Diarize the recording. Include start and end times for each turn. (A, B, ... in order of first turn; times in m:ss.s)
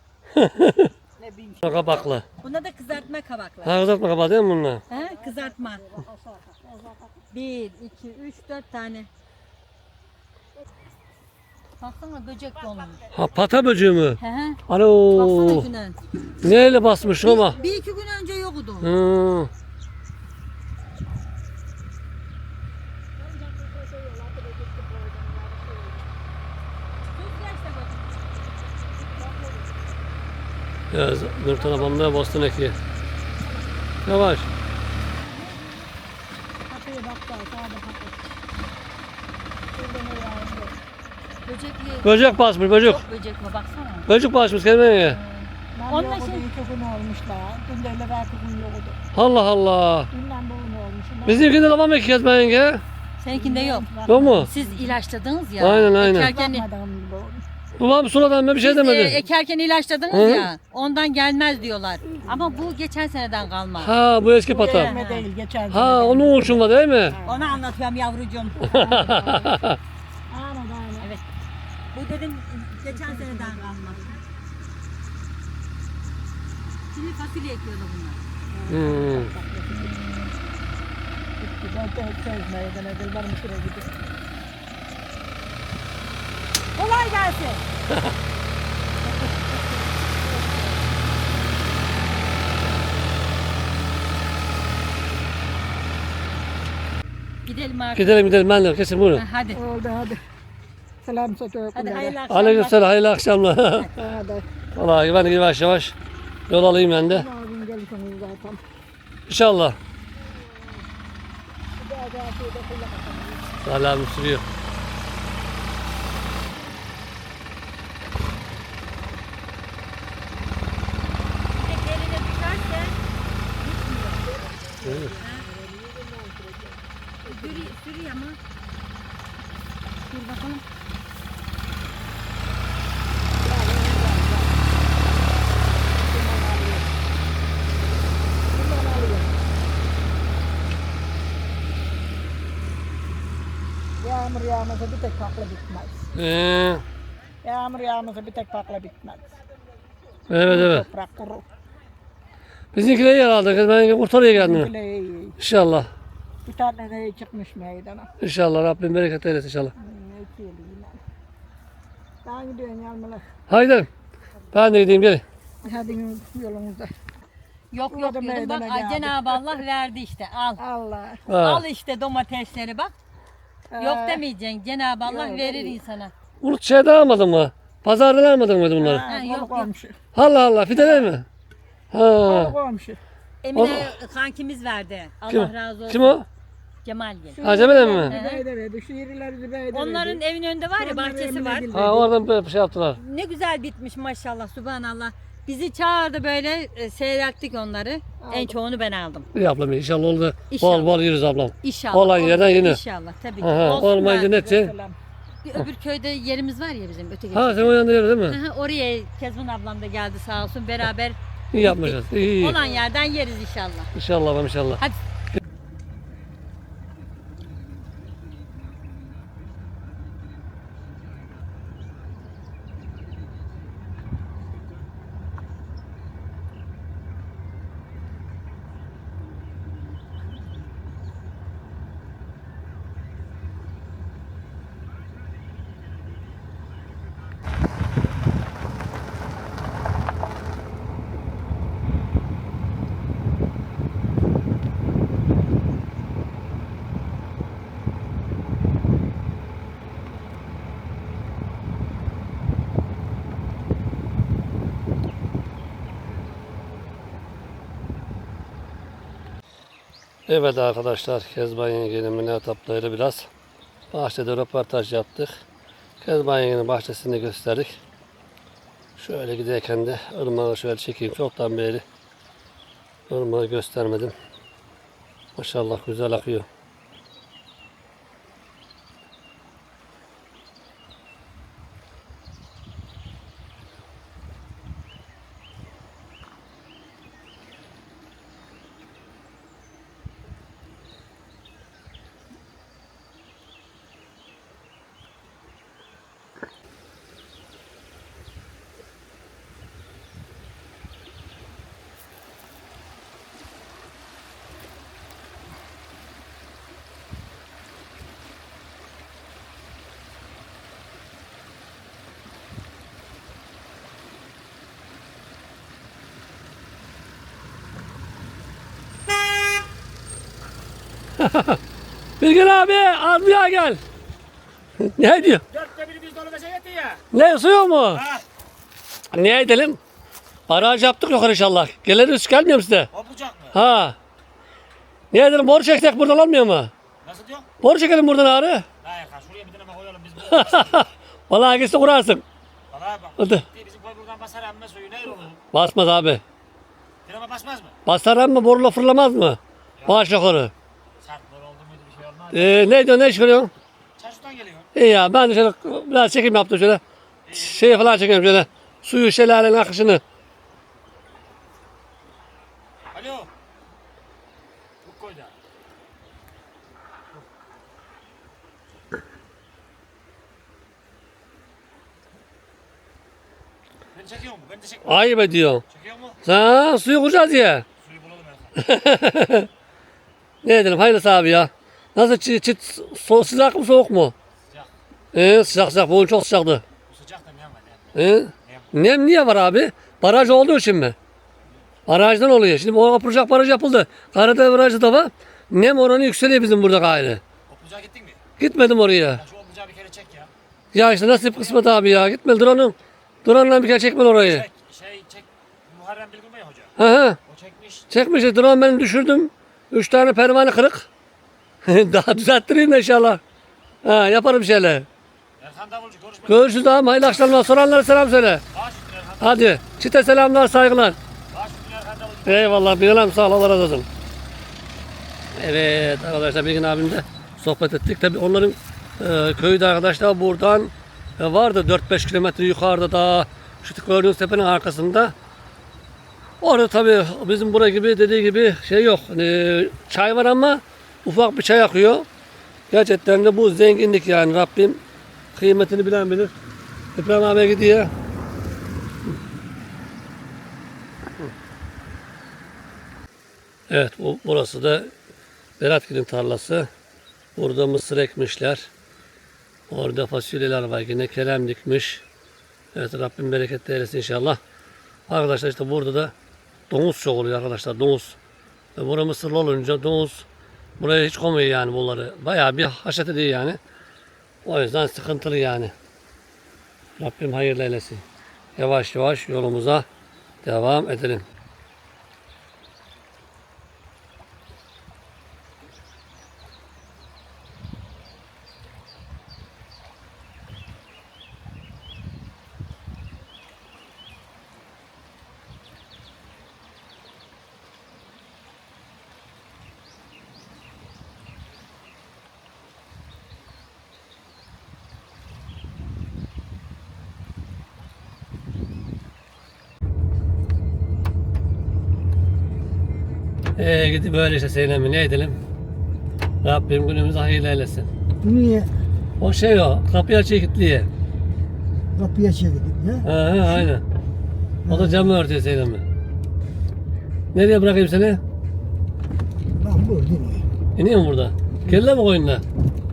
0:00.3-0:00.9 A
0:01.2-0:01.9 B
0:01.6-0:02.2 A
0:02.4-0:04.0 C
0:03.6-0:04.8 A
0:04.9-0:05.8 C
0:04.9-0:07.2 B
0:07.3-0:09.1 C
0:11.8-0:13.0 C
0:12.7-0:13.5 D
0:13.1-0:15.7 A
0:14.2-0:14.6 C
0:15.1-0:16.0 C
0:16.4-0:17.6 A
0:16.5-0:17.9 B
0:17.2-0:18.9 C
0:18.8-0:19.5 A
0:23.2-0:26.1 B
0:27.1-0:28.1 C
0:28.8-0:30.0 B
0:30.9-0:32.8 A
0:31.5-0:32.4 B
0:33.3-0:33.9 B
0:34.0-0:34.5 A
0:35.3-0:35.7 C
0:36.7-0:38.3 B
0:39.7-0:40.8 B
0:41.4-0:44.1 C
0:42.0-0:43.0 A
0:44.1-0:45.2 A
0:45.1-0:46.5 C
0:45.7-0:49.0 B
0:49.1-0:50.1 A
0:50.1-0:51.6 B
0:51.2-0:52.8 A
0:53.2-0:56.7 C
0:53.3-0:55.0 B
0:54.1-0:54.5 A
0:55.6-0:56.3 A
0:56.0-0:57.4 B
0:57.8-0:59.2 A
0:58.6-1:03.9 C
1:00.1-1:00.5 A
1:02.2-1:02.7 B
1:03.8-1:04.9 A
1:04.5-1:07.6 B
1:04.6-1:05.3 C
1:05.7-1:07.2 A
1:07.2-1:08.6 C
1:08.5-1:09.6 B
1:08.7-1:09.8 A
1:10.3-1:11.1 B
1:11.9-1:14.2 C
1:12.8-1:14.2 B
1:16.9-1:18.2 C
1:18.5-1:20.0 B
1:18.7-1:19.3 A
1:19.7-1:20.3 C
1:21.4-1:24.1 B
1:26.8-1:27.6 C
1:29.2-1:29.6 C
1:30.2-1:30.9 B
1:37.4-1:38.2 C
1:37.9-1:39.2 A
1:39.1-1:39.6 C
1:39.5-1:40.2 B
1:41.0-1:42.2 B
1:41.7-1:42.8 C
1:42.3-1:43.9 A
1:43.9-1:44.4 B
1:44.8-1:45.9 A
1:46.5-1:47.2 A
1:47.1-1:48.6 B
1:49.3-1:49.8 A
1:50.2-1:50.9 B
1:51.8-1:53.6 B
1:53.6-1:54.4 A
2:01.5-2:03.0 C
2:03.6-2:04.2 C
2:04.2-2:07.8 B
2:04.8-2:05.1 A
2:05.2-2:05.4 C
2:07.2-2:08.4 C
2:10.1-2:10.6 C
2:13.2-2:14.6 B
2:16.0-2:16.9 B
2:18.5-2:19.4 B
2:24.0-2:26.0 B
2:26.1-2:26.8 A
2:27.4-2:29.3 B
2:30.3-2:30.9 A
2:30.4-2:31.4 B
2:32.7-2:34.7 A
2:34.3-2:35.4 B
2:35.4-2:35.9 A
2:36.4-2:38.1 B
2:38.2-2:39.7 A
2:39.8-2:41.0 B
2:42.2-2:43.2 B
2:43.5-2:43.9 A
2:44.5-2:45.2 A
2:45.6-2:46.9 B
2:47.7-2:50.6 C
2:47.9-2:49.6 B
2:50.6-2:51.2 B
2:51.3-2:51.6 A
2:51.4-2:52.9 C
2:53.7-2:54.2 B
2:53.8-2:56.1 C
2:55.0-2:55.8 B
2:56.4-2:59.0 A
2:58.8-3:00.0 B
2:59.0-2:59.7 C
3:00.1-3:01.3 A
3:01.9-3:02.5 A
3:02.2-3:03.0 B
3:03.4-3:06.2 C
3:03.5-3:03.9 A
3:05.3-3:06.2 A
3:06.8-3:07.4 C
3:07.3-3:10.2 B
3:07.4-3:08.1 A
3:08.1-3:08.4 C
3:09.7-3:11.7 C
3:10.8-3:12.1 B
3:11.7-3:13.0 A
3:13.0-3:19.3 C
3:18.2-3:18.6 B
3:19.3-3:22.8 A
3:20.5-3:21.0 C
3:21.6-3:24.3 C
3:23.4-3:24.7 A
3:23.7-3:25.0 B
3:25.4-3:33.9 C
3:27.3-3:28.4 A
3:31.5-3:32.6 A
3:32.5-3:32.9 B
3:33.9-3:34.8 A
4:20.3-4:23.3 A
4:23.9-4:25.4 A
4:26.0-4:27.8 A
4:29.0-4:31.8 A
4:33.1-4:34.1 A
4:35.4-4:36.5 A
5:21.2-5:21.6 A
5:22.2-5:23.8 A
5:24.8-5:25.4 A
5:25.5-5:27.0 D
5:27.1-5:28.0 A
5:27.9-5:28.2 D
5:29.1-5:29.8 A
5:30.5-5:32.9 A
5:32.9-5:33.6 D
5:33.5-5:34.0 A
5:35.1-5:36.7 A
5:37.0-5:37.5 D
5:37.6-5:38.6 A
5:38.8-5:40.8 D
5:40.3-5:42.2 A
5:42.7-5:45.4 D
5:43.2-5:43.4 A
5:45.5-5:46.2 A
5:47.0-5:47.7 D
5:47.8-5:50.5 A
5:51.0-5:52.8 D
5:52.3-5:53.5 A
5:54.0-5:54.7 D
5:54.7-5:56.8 A
5:57.3-5:57.7 D
5:57.3-6:00.0 A
6:02.9-6:03.3 D
6:04.8-6:05.3 D
6:13.9-6:15.0 D
6:14.8-6:15.6 A
6:15.7-6:16.2 D
6:16.2-6:17.6 A
6:17.8-6:18.6 D
6:18.6-6:19.5 A
6:20.4-6:24.1 A
6:25.1-6:26.6 A
6:26.9-6:28.7 D
6:27.9-6:31.0 A
6:31.9-6:37.2 A
6:37.5-6:38.2 D
6:38.4-6:39.2 A
6:39.1-6:40.3 D
6:40.7-6:44.5 A
6:44.2-6:46.7 D
6:46.8-6:47.2 A
6:47.2-6:47.9 D
6:47.9-6:50.9 A
6:51.6-6:53.2 A
6:53.8-6:54.9 A
6:55.4-6:56.5 D
6:56.3-6:58.4 A
6:58.5-6:59.4 D
6:59.2-7:01.0 A
7:01.3-7:02.4 D
7:02.2-7:03.9 A
7:05.4-7:15.1 A
7:16.4-7:22.1 A
7:22.7-7:24.8 A
7:25.3-7:26.3 A
7:27.0-7:27.9 A
7:33.7-7:34.9 A
7:35.6-7:36.7 A
7:37.4-7:38.7 A
7:39.7-7:42.0 A
7:42.7-7:44.4 A
7:45.1-7:46.1 A
7:46.7-7:48.2 A
7:48.8-7:50.2 A
7:50.8-7:53.6 A
7:54.4-7:55.7 A
7:57.0-7:58.0 A
7:58.6-7:59.8 A
8:00.4-8:01.2 A
8:33.6-8:35.4 A
8:36.4-8:37.9 A
8:38.2-8:38.7 E
8:39.2-8:40.9 A
8:41.9-8:43.1 E
8:43.0-8:43.8 A
8:44.6-8:45.1 E
8:44.7-8:45.8 A
8:47.3-8:48.2 A
8:49.5-8:50.5 E
8:50.8-8:52.4 A